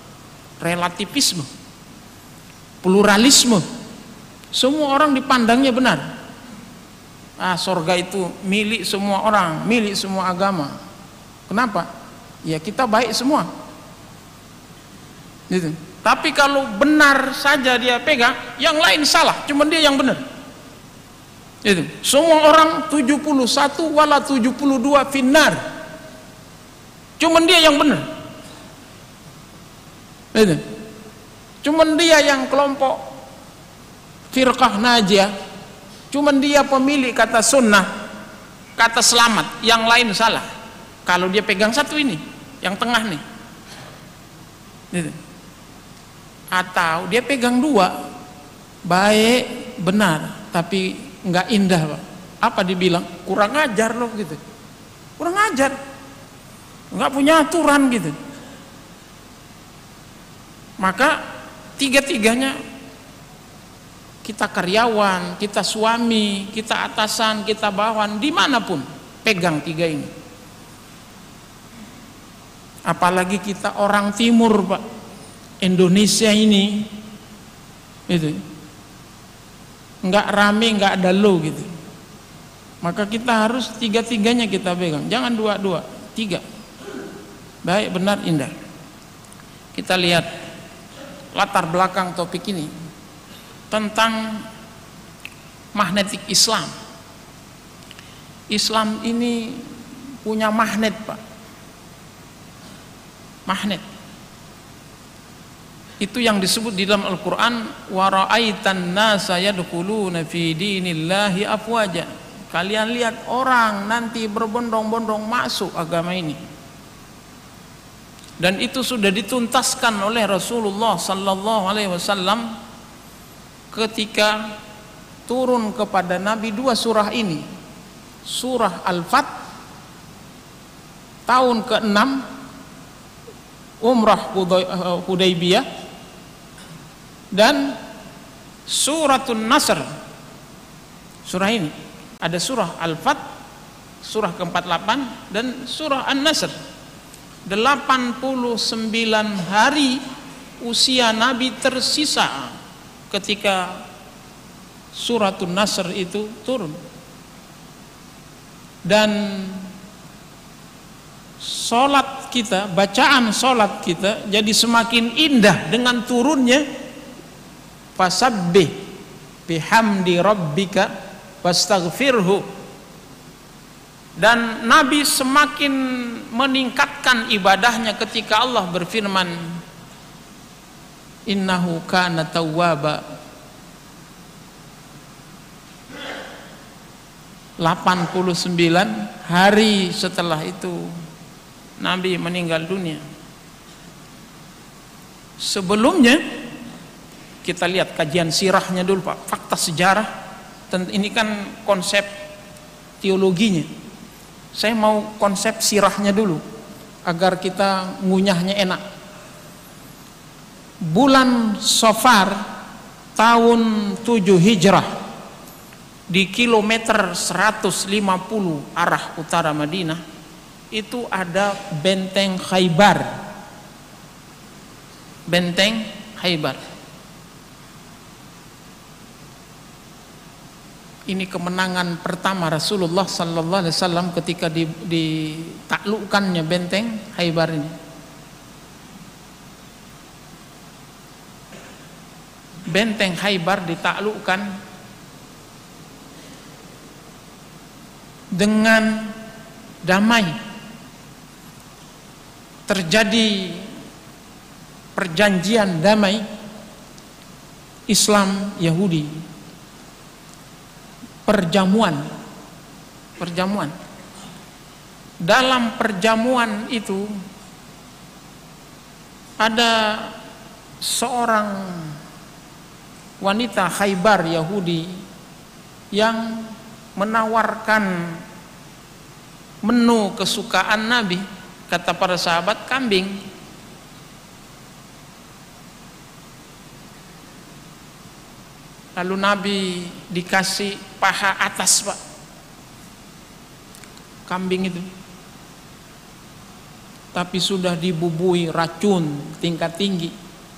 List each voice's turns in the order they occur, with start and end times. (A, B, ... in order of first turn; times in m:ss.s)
0:00.6-0:01.5 A
0:02.8-0:03.6 A
0:04.5-0:06.1 A
0:07.4-0:10.8 A
0:11.5-0:11.9 A
0:12.4-0:13.5 A
0:15.5-0:20.2 A
0:21.6-0:25.6 A
0:27.2-0:28.0 A
0:30.3-0:30.6 A
0:31.6-0:33.0 A
0:34.3-0:35.3 A
0:36.1-0:37.9 A
0:38.8-0:40.5 A
0:41.0-0:43.2 A
0:44.9-0:45.2 A
0:46.5-0:47.9 A
0:48.8-0:54.4 A
0:55.2-0:55.7 A
0:56.9-0:58.1 A
1:00.8-1:01.2 A
1:01.8-1:02.6 A
1:04.2-1:10.1 A
1:12.9-1:14.8 A
1:15.6-1:16.9 A
1:18.1-1:18.4 A
1:20.0-1:21.7 A
1:22.8-1:26.4 A
1:27.6-1:28.5 A
1:29.7-1:30.3 A
1:31.3-1:32.7 A
1:33.7-1:34.4 A
1:35.7-1:36.7 A
1:38.5-1:39.7 A
1:40.2-1:41.2 A
1:43.5-1:43.8 A
1:46.0-1:56.4 A
1:58.4-2:02.5 A
2:03.7-2:04.4 A
2:05.3-2:07.4 A
2:08.2-2:09.3 A
2:11.3-2:12.2 A
2:13.8-2:15.6 A
2:17.3-2:17.8 A
2:18.7-2:19.8 A
2:21.2-2:23.2 A
2:24.0-2:26.5 A
2:27.5-2:30.0 A
2:30.6-2:32.5 A
2:33.1-2:33.8 A
2:34.9-2:36.8 A
2:38.8-2:39.7 A
2:41.4-2:46.6 A
2:48.0-2:48.7 A
2:49.5-2:50.9 A
2:51.4-2:52.4 A
2:54.2-2:59.6 A
3:01.3-3:03.0 A
3:07.6-3:10.9 A
3:11.8-3:13.0 A
3:15.4-3:16.2 A
3:17.4-3:20.1 A
3:20.7-3:22.1 A
3:23.0-3:23.7 A
3:24.5-3:26.4 A
3:27.1-3:28.8 A
3:30.8-3:32.4 A
3:33.2-3:34.9 A
3:36.1-3:40.0 A
3:40.7-3:43.0 A
3:45.3-3:46.6 A
3:51.1-3:57.7 A
4:02.7-4:04.5 A
4:08.3-4:09.2 A
4:09.8-4:10.4 A
4:12.7-4:13.7 A
4:14.9-4:16.2 A
4:17.9-4:19.1 A
4:21.2-4:22.1 A
4:23.2-4:23.7 A
4:25.2-4:27.1 A
4:29.4-4:30.1 A
4:30.8-4:32.0 A
4:33.2-4:35.0 A
4:35.9-4:38.2 A
4:39.6-4:43.2 A
4:49.0-4:52.0 A
4:54.3-4:54.9 A
4:57.1-5:00.1 A